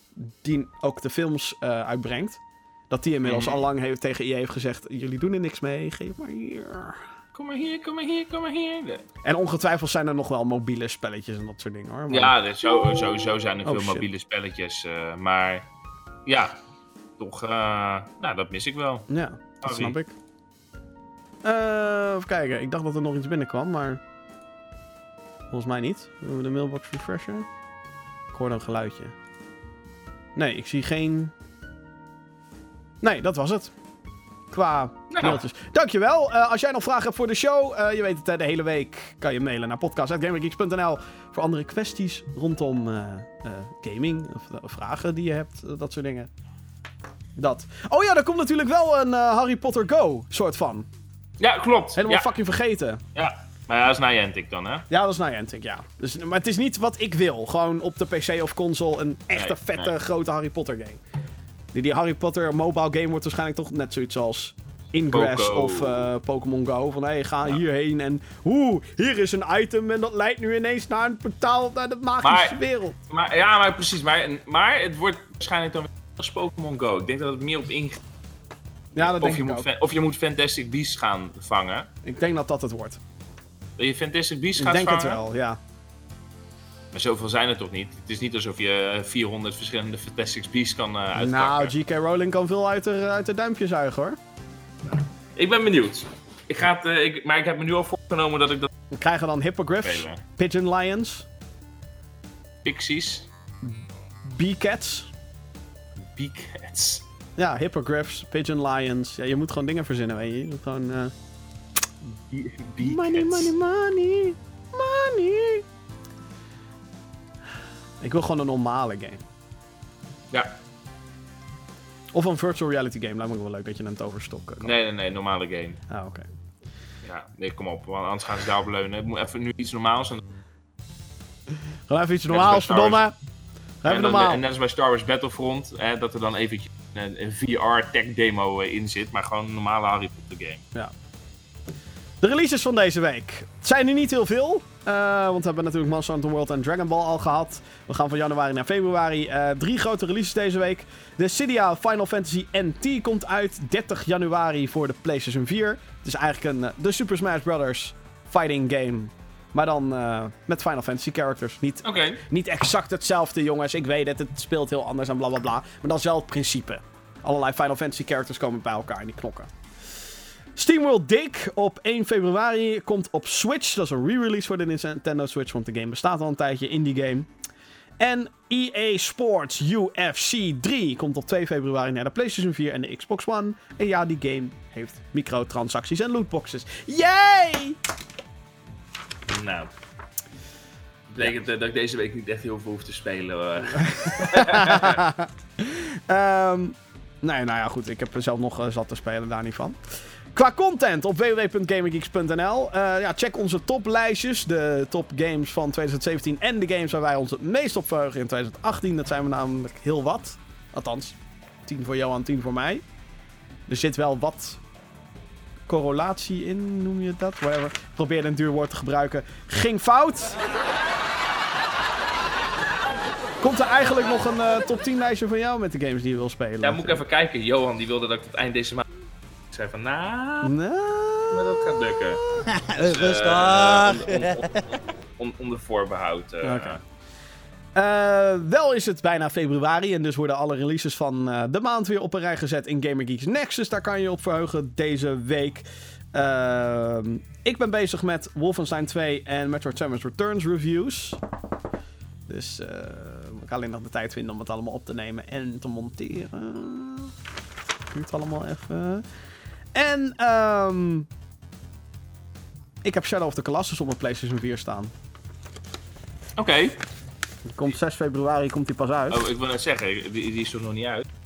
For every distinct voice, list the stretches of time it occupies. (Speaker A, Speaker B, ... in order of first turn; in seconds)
Speaker A: 0.1-7.0, 9.2-12.3, 13.6-14.1, 19.1-20.1, 21.4-24.0, 25.5-27.5, 28.3-29.1, 30.4-31.3, 33.0-33.7, 34.5-46.3, 47.4-50.9, 52.0-53.0, 54.9-61.0, 61.7-73.0, 79.0-79.7, 82.0-83.0, 84.6-85.6, 91.2-94.2, 98.9-101.3, 103.6-105.1, 107.4-111.1, 112.8-115.6, 118.0-119.2, 122.1-124.7, 125.9-126.2, 131.9-133.2, 133.8-134.4, 142.2-169.5, 170.6-177.3, 178.0-187.8, 193.7-212.8, 213.7-214.6, 215.7-220.4, 223.4-227.0, 230.4-231.6, 232.3-234.6, 236.4-236.8, 237.7-251.2, 252.3-257.1, 257.9-259.0, 259.7-261.1, 262.8-264.9, 267.5-269.3
Speaker B: 3.2-3.6, 7.3-9.0, 12.1-15.7, 16.2-16.5, 17.2-19.1, 19.6-19.9, 35.1-35.4, 51.4-52.3, 53.1-54.9, 59.3-59.9, 65.1-66.1, 72.2-78.0, 78.9-81.9, 83.8-85.2, 86.9-91.7, 94.9-98.7, 99.8-100.2, 102.6-103.3, 106.1-107.0, 112.1-113.5, 124.6-125.8, 127.0-130.2, 132.3-133.0, 133.8-140.6, 161.8-162.2, 189.3-189.7, 191.1-195.0, 226.6-228.9, 229.5-230.5, 231.3-236.8, 266.4-266.8, 269.1-271.0